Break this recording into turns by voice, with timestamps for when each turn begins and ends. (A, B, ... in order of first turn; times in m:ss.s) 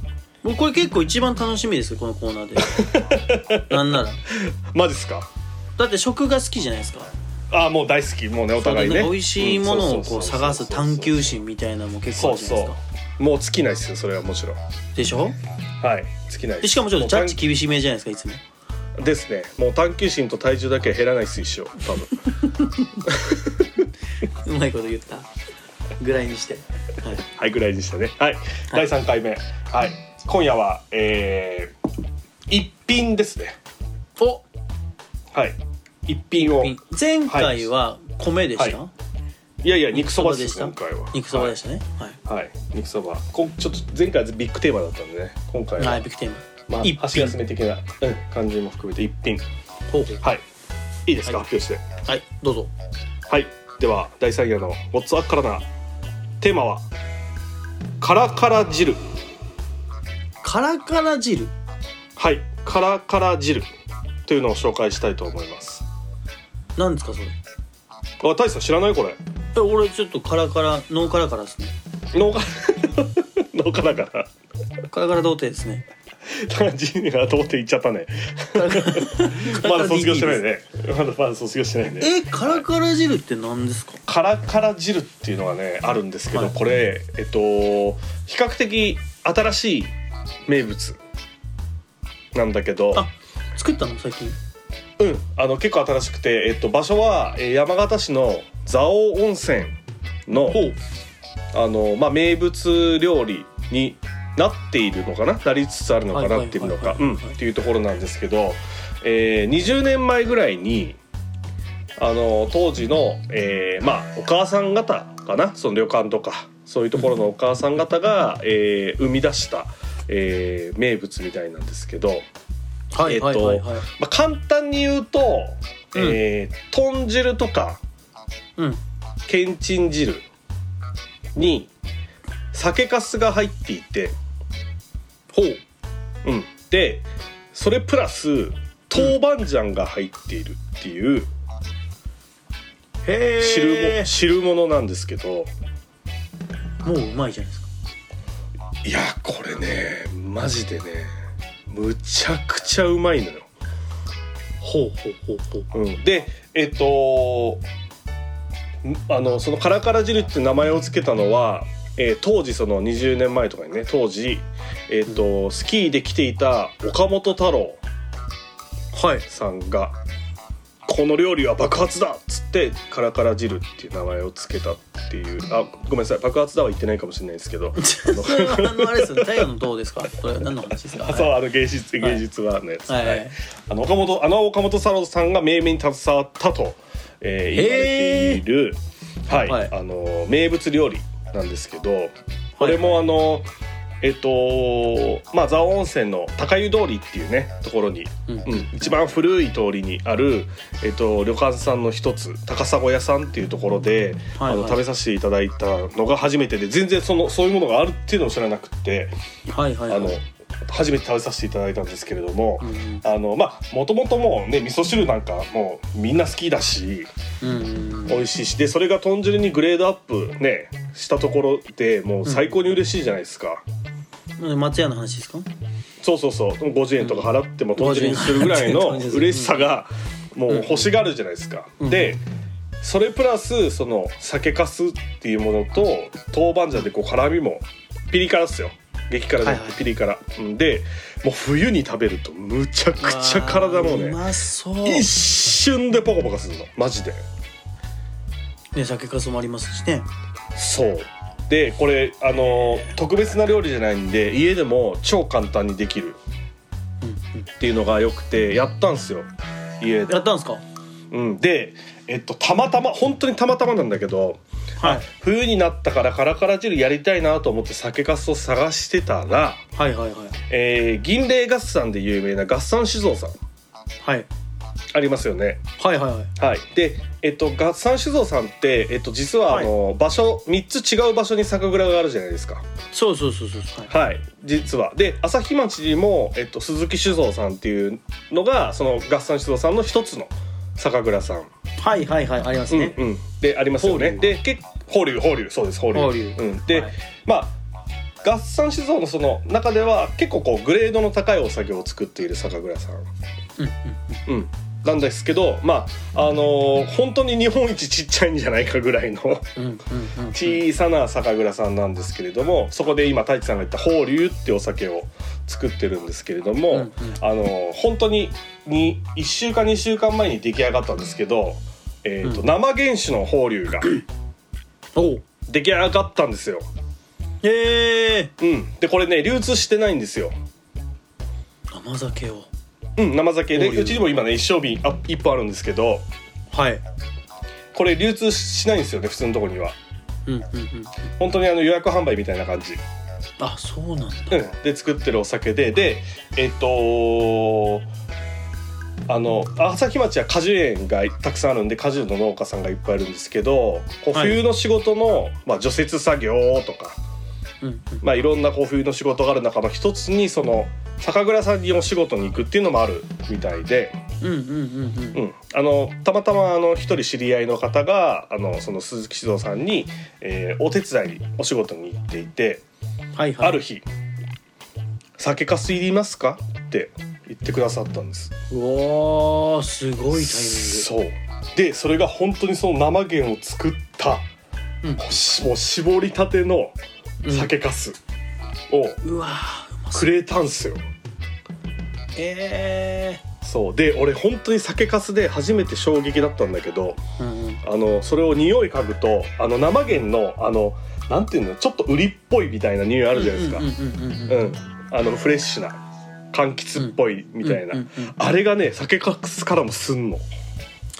0:00.4-0:03.0 A
0:02.7-0:05.3 B
0:03.7-0:04.2 A
0:05.8-0:07.1 A
0:07.5-0:11.3 B
0:08.6-0:12.8 A
0:12.1-0:14.6 B
0:14.9-0:15.4 A
0:15.8-0:17.4 B
0:16.6-0:18.4 A
0:19.0-0:22.1 B
0:22.4-0:22.7 A
0:23.0-0:23.9 B
0:24.2-0:25.3 A
0:26.0-0:27.2 A
0:27.2-0:31.7 B
0:32.5-0:33.6 B
0:34.2-0:34.4 A
0:35.3-0:36.8 B
0:36.4-0:38.9 A
0:37.3-0:37.7 B
0:39.6-0:41.5 B
0:39.9-0:42.2 A
0:42.2-0:46.0 B
0:45.8-0:47.4 A
0:46.7-0:49.4 B
0:49.9-0:50.2 A
0:51.0-0:51.8 B
0:52.1-0:52.7 A
0:53.3-0:55.6 B
0:56.4-0:56.9 B
0:58.0-0:59.0 B
1:00.4-1:01.5 A
1:02.2-1:03.7 B
1:04.3-1:05.8 B
1:06.8-1:07.4 A
1:08.2-1:09.2 B
1:09.5-1:11.7 A
1:12.1-1:14.3 B
1:14.9-1:15.8 A
1:16.3-1:22.6 B
1:18.6-1:20.4 A
1:22.0-1:24.0 A
1:24.0-1:29.9 B
1:30.5-1:31.0 B
1:32.3-1:33.1 B
1:32.9-1:34.4 A
1:35.0-1:40.6 B
1:40.5-1:40.8 A
1:41.5-1:51.0 B
1:46.1-1:47.4 A
1:52.0-2:02.2 B
2:02.9-2:03.9 A
2:03.0-2:07.8 B
2:05.9-2:06.2 A
2:09.3-2:10.2 B
2:11.3-2:11.7 B
2:12.5-2:14.1 B
2:15.3-2:15.6 A
2:16.2-2:21.3 B
2:23.0-2:24.1 A
2:23.4-2:25.5 B
2:26.8-2:27.7 A
2:28.8-2:31.1 B
2:31.7-2:33.5 B
2:34.6-2:35.6 A
2:35.7-2:37.6 B
2:38.8-2:47.8 B
2:48.9-2:49.2 A
2:49.2-2:50.0 B
2:50.9-2:59.5 B
2:57.8-3:01.4 A
3:00.9-3:13.5 B
3:02.9-3:03.4 A
3:07.5-3:08.4 A
3:09.3-3:09.7 A
3:12.6-3:13.0 A
3:14.0-3:29.1 B
3:18.3-3:18.9 A
3:24.4-3:24.8 A
3:29.5-3:30.2 A
3:29.9-3:37.1 B
3:32.6-3:33.0 A
3:37.4-3:38.2 A
3:38.1-3:43.6 B
3:42.2-3:42.5 A
3:44.4-3:45.5 A
3:46.0-3:52.2 B
3:47.0-3:49.6 A
3:50.5-3:50.9 A
3:51.8-3:52.2 A
3:52.8-4:04.2 B
3:59.4-3:59.8 A
4:03.0-4:05.1 A
4:04.8-4:07.2 B
4:08.7-4:10.1 A
4:10.5-4:16.2 B
4:17.0-4:17.5 A
4:17.6-4:19.3 B
4:19.8-4:20.2 B
4:20.1-4:20.6 A
4:21.1-4:29.6 B
4:24.8-4:25.1 A
4:29.8-4:30.4 A
4:30.5-4:33.4 B
4:34.0-4:34.3 A
4:34.9-4:35.6 B
4:35.8-4:36.3 A
4:36.4-4:42.6 B
4:42.9-4:43.9 A
4:43.9-4:51.5 B
4:51.8-4:53.0 A
4:52.7-4:57.6 B
4:53.8-4:54.3 A
4:55.9-4:56.9 A
4:58.2-5:03.1 B
5:03.6-5:04.2 A
5:04.3-5:09.5 B
5:09.6-5:10.6 A
5:10.3-5:24.0 B
5:16.7-5:17.2 A
5:25.0-5:25.2 A
5:25.5-5:26.7 B
5:27.4-5:28.3 A
5:28.4-5:30.3 B
5:31.7-5:32.5 A
5:33.0-5:36.0 B
5:33.5-5:34.1 A
5:36.5-5:36.8 A
5:37.7-5:39.8 B
5:40.3-5:41.0 A
5:41.2-5:42.8 B
5:43.4-5:44.5 A
5:44.3-5:47.9 B
5:49.1-5:57.0 B
5:54.1-5:54.4 A
5:57.6-5:58.0 A
5:58.0-6:04.0 B
6:04.2-6:05.2 A
6:05.1-6:12.6 B
6:13.1-6:13.6 A
6:13.4-6:13.8 B
6:15.2-6:18.3 B
6:18.5-6:20.9 A
6:20.1-6:24.3 B
6:25.0-6:26.8 B
6:27.2-6:27.5 A
6:27.3-6:28.0 B
6:28.7-6:29.0 B
6:29.0-6:30.1 A
6:29.9-6:30.8 B
6:32.2-6:33.2 A
6:33.4-6:37.0 B
6:37.2-6:37.6 A
6:37.6-6:43.7 B
6:43.1-6:44.5 A
6:44.3-6:45.8 B
6:46.3-6:50.2 B
6:46.8-6:48.2 A